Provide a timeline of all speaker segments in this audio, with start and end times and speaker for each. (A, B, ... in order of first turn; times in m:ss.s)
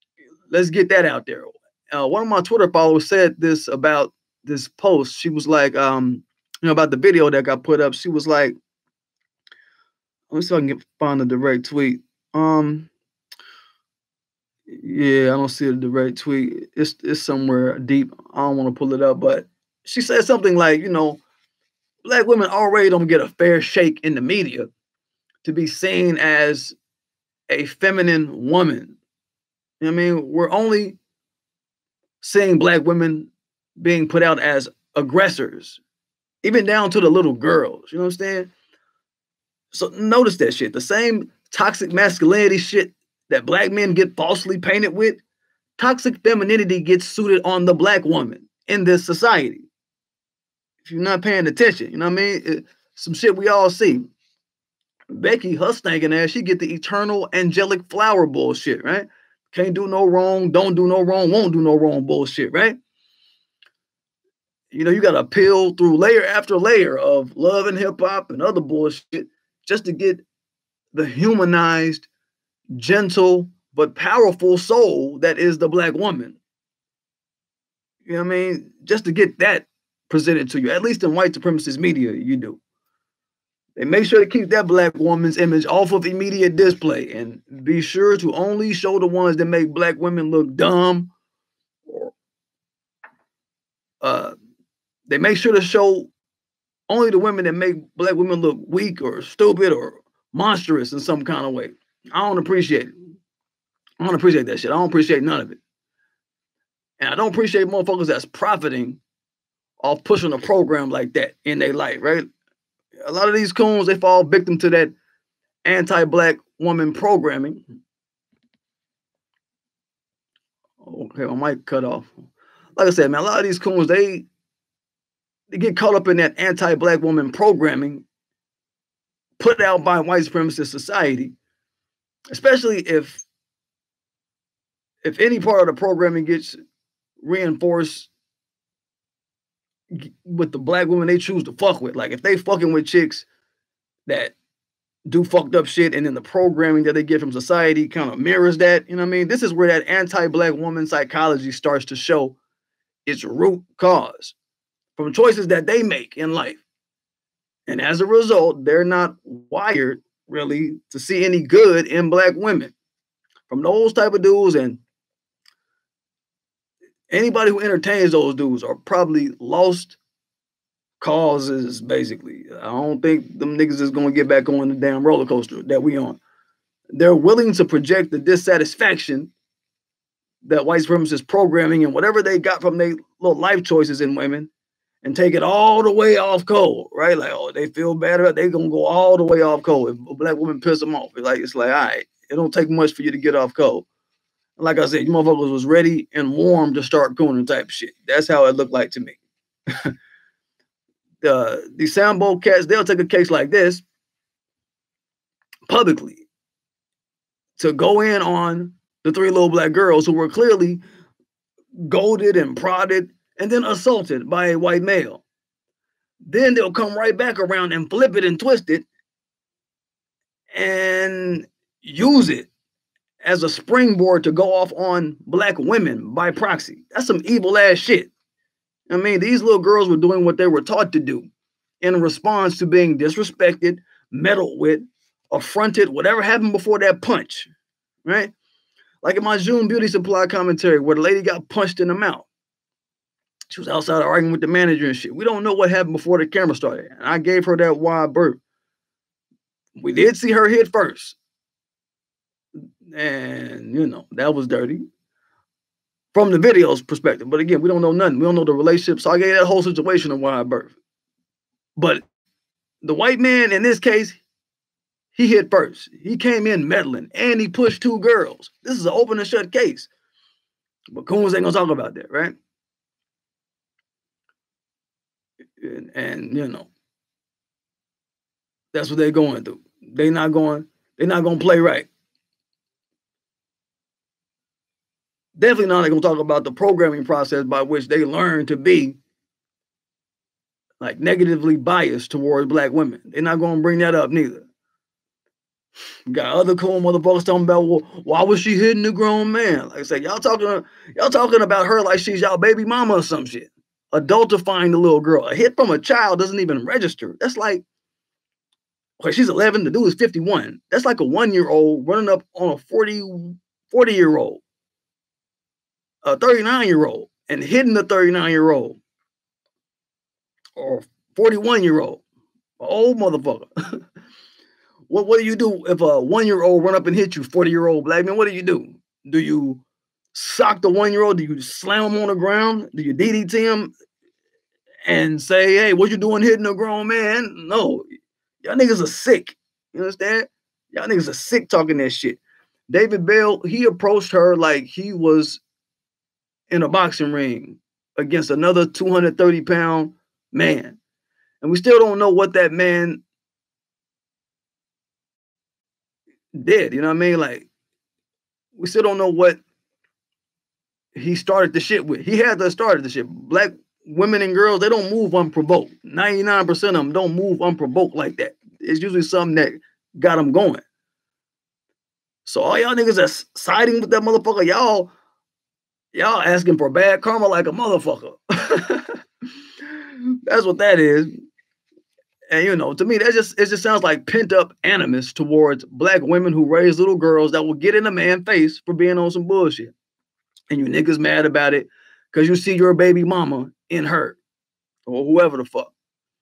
0:00.5-0:08.6 A
0:10.3-0:12.9 A
0:14.7-0:21.2 A
0:22.0-0:24.7 A
0:25.4-0:26.8 A
0:27.5-0:29.0 A
0:29.8-0:31.0 A
0:32.2-0:35.8 A
0:36.4-0:38.5 A
0:39.7-0:45.2 A
0:45.8-0:49.7 A
0:50.8-0:54.1 A
0:55.1-1:02.8 A
1:04.7-1:10.2 A
1:10.9-1:12.1 A
1:12.8-1:16.4 A
1:18.1-1:22.6 A
1:23.8-1:31.1 A
1:31.9-1:32.1 A
1:34.0-1:34.3 A
1:35.1-1:36.1 A
1:36.9-1:43.0 A
1:44.0-1:45.6 A
1:47.0-1:49.0 A
1:49.8-1:52.3 A
1:53.0-1:54.9 A
1:55.6-1:57.6 A
2:00.8-2:02.1 A
2:02.8-2:04.3 A
2:05.5-2:08.0 A
2:09.4-2:11.4 A
2:12.3-2:13.2 A
2:15.0-2:16.6 A
2:17.2-2:18.1 A
2:19.9-2:23.3 A
2:24.1-2:24.3 A
2:25.1-2:32.4 A
2:33.1-2:34.4 A
2:35.0-2:36.6 A
2:37.7-2:42.7 A
2:43.5-2:44.8 A
2:47.1-2:50.0 A
2:51.0-2:56.2 A
2:57.0-2:59.3 A
3:00.4-3:04.5 A
3:05.0-3:13.9 A
3:14.6-3:19.2 A
3:21.2-3:23.8 A
3:25.7-3:26.2 A
3:27.6-3:30.8 A
3:31.8-3:35.2 A
3:36.2-3:38.9 A
3:40.5-3:42.5 A
3:43.2-3:48.1 A
3:48.9-3:51.3 A
3:51.8-3:57.5 A
3:58.0-3:58.3 A
3:59.0-4:02.3 A
4:03.5-4:08.4 A
4:09.8-4:11.2 A
4:12.9-4:14.8 A
4:16.1-4:20.8 A
4:21.8-4:22.0 A
4:22.8-4:24.2 A
4:25.1-4:29.9 A
4:30.9-4:32.4 A
4:35.6-4:36.7 A
4:38.7-4:41.9 A
4:45.4-4:49.0 A
4:50.8-4:54.5 A
4:56.1-5:07.6 A
5:09.0-5:14.4 A
5:16.0-5:18.8 A
5:20.6-5:22.0 A
5:22.6-5:23.7 A
5:24.9-5:29.6 A
5:30.1-5:33.7 A
5:34.9-5:37.8 A
5:38.4-5:45.4 A
5:46.5-5:50.8 A
5:51.4-5:53.0 A
5:56.4-5:57.5 A
5:58.6-5:59.4 A
6:01.0-6:10.6 A
6:12.2-6:14.9 A
6:15.9-6:19.0 A
6:20.3-6:21.1 A
6:22.3-6:29.7 A
6:30.5-6:34.2 A
6:34.9-6:35.7 A